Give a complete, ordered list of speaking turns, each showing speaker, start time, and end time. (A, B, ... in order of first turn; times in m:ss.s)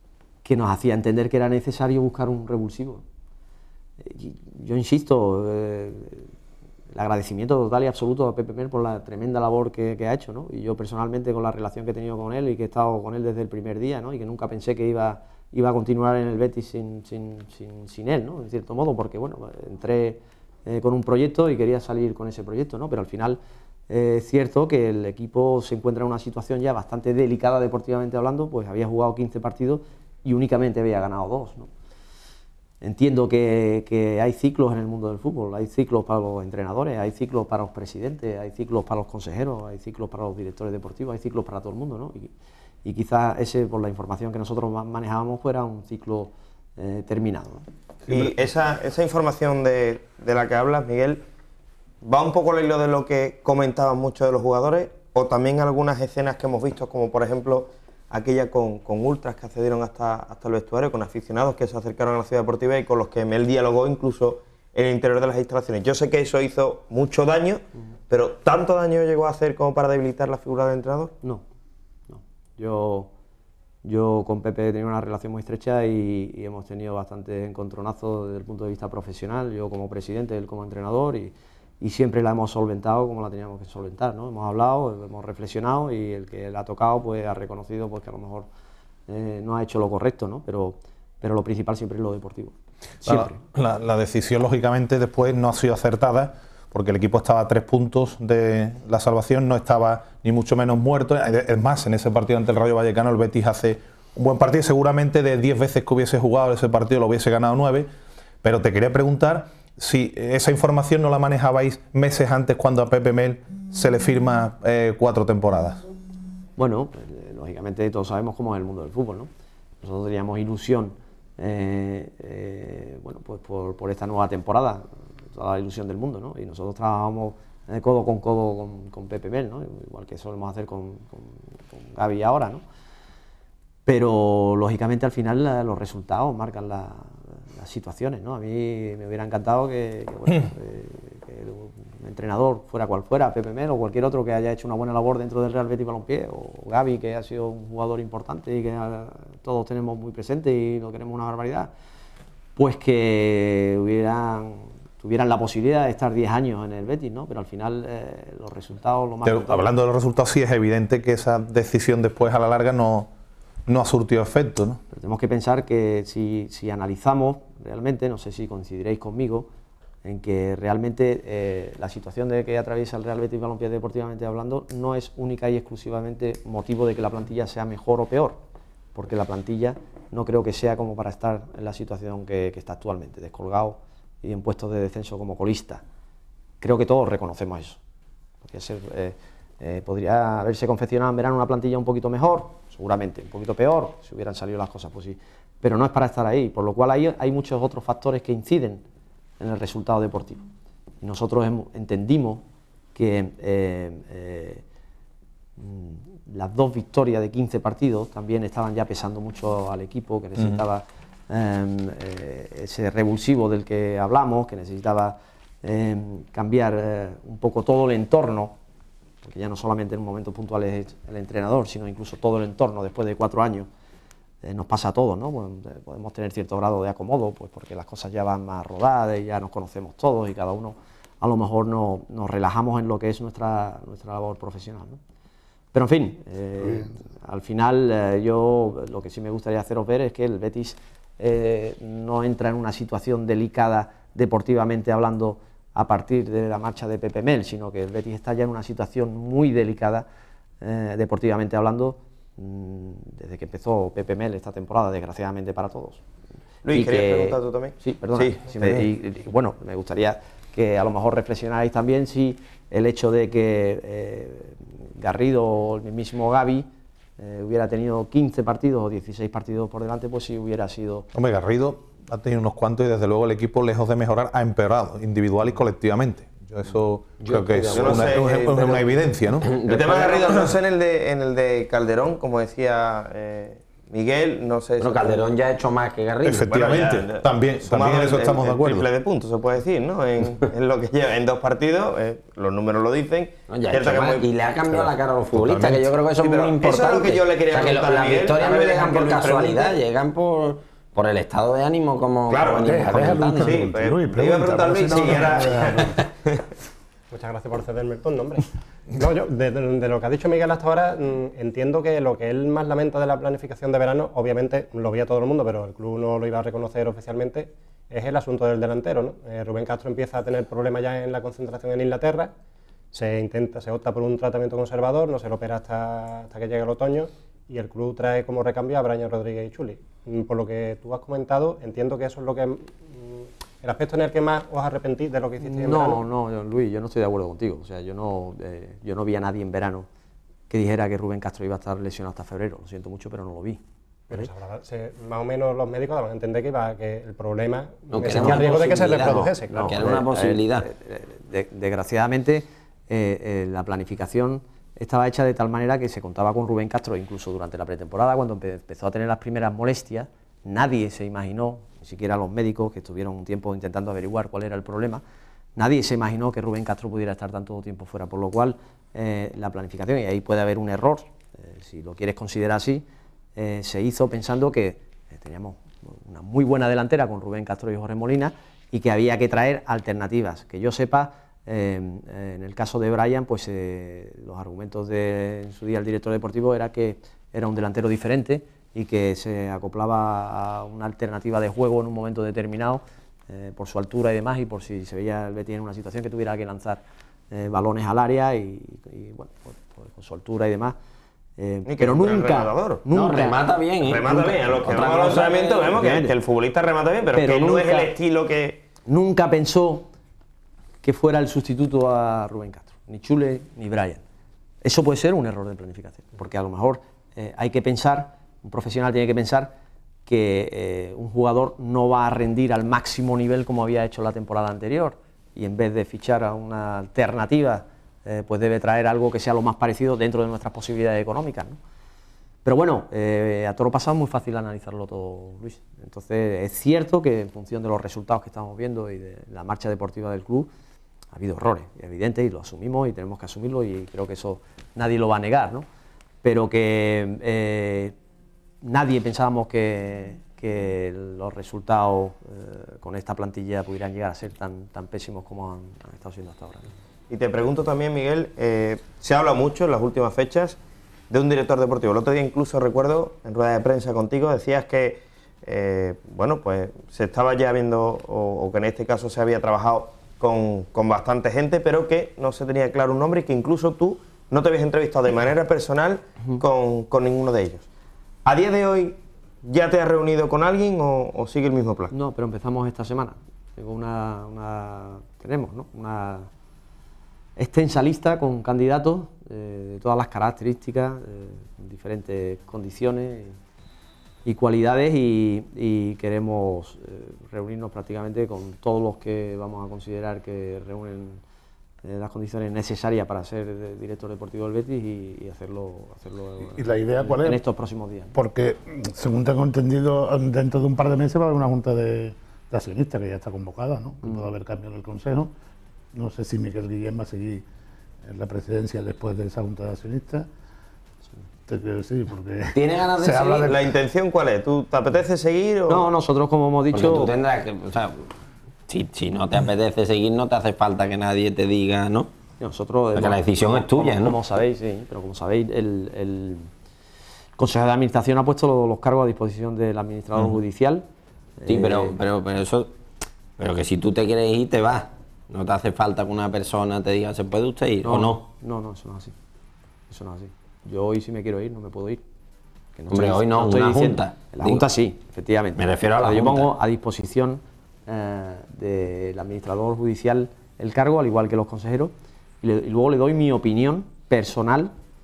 0:00.4-0:03.0 A
0:04.0-0:06.3 A
0:06.9-0:31.7 A
0:32.8-0:42.3 A
0:42.8-0:47.7 A
0:48.1-0:51.2 B
0:52.0-1:11.2 B
1:12.1-1:13.1 A
1:13.8-1:28.5 A
1:29.1-1:33.4 A
1:33.0-1:47.9 C
1:48.4-1:55.8 C
1:56.6-1:59.3 A
1:59.8-2:12.6 A
2:13.9-2:31.7 A
2:32.6-2:39.7 A
2:39.2-2:43.1 C
2:43.7-2:44.8 C
2:44.9-2:49.5 A
2:50.0-2:58.4 A
2:59.0-3:05.8 A
3:06.6-3:07.8 A
3:08.4-3:18.8 A
3:19.4-3:20.4 A
3:21.0-3:24.6 A
3:25.6-3:38.6 A
3:39.2-3:43.7 A
3:44.4-3:55.0 A
3:55.7-4:10.1 A
4:10.6-4:16.0 A
4:16.6-4:18.6 B
4:16.7-4:31.1 A
4:31.1-4:39.6 C
4:37.2-4:38.8 D
4:37.7-4:39.0 B
4:39.4-4:40.5 D
4:39.6-4:45.2 B
4:44.8-4:46.5 D
4:46.2-4:48.9 C
4:46.5-4:54.3 B
4:53.5-5:03.6 D
4:54.8-4:55.9 C
4:56.2-4:59.8 B
5:02.3-5:06.5 B
5:02.6-5:06.0 E
5:07.1-5:22.3 F
5:22.9-5:36.0 F
5:35.4-5:39.9 A
5:40.5-5:43.6 A
5:44.1-5:50.0 F
5:47.9-5:50.7 D
5:48.1-6:05.0 A
6:05.6-6:12.8 A
6:13.4-6:40.8 A
6:41.4-6:43.4 A
6:41.7-6:42.8 B
6:42.9-6:45.8 D
6:43.8-6:48.6 B
6:44.2-6:44.6 A
6:45.8-6:46.1 A
6:47.1-6:47.9 A
6:48.9-6:49.9 A
6:50.8-6:54.0 A
6:54.6-6:59.5 A
7:00.1-7:11.6 A
7:12.4-7:20.5 A
7:21.1-7:25.7 A
7:26.2-7:28.0 A
7:28.6-7:36.7 A
7:37.1-7:40.6 B
7:41.1-7:57.7 B
7:58.2-8:01.9 B
8:01.9-8:06.3 A
8:07.4-8:13.4 A
8:14.2-8:21.2 A
8:21.8-8:28.1 A
8:26.5-8:27.4 E
8:28.1-8:35.3 E
8:34.0-8:34.3 A
8:35.9-8:37.5 E
8:38.0-8:40.3 E
8:41.5-8:43.7 E
8:42.5-8:43.5 D
8:43.4-8:45.9 B
8:45.7-8:47.1 A
8:46.7-8:48.1 D
8:48.7-8:52.1 D
8:52.4-8:56.5 A
8:53.0-8:54.2 D
8:57.4-9:00.8 A
9:01.4-9:02.0 A
9:01.5-9:02.7 D
9:03.4-9:08.2 D
9:07.8-9:09.2 A
9:09.9-9:12.0 A
9:12.8-9:24.7 A
9:12.9-9:14.7 D
9:15.6-9:16.5 D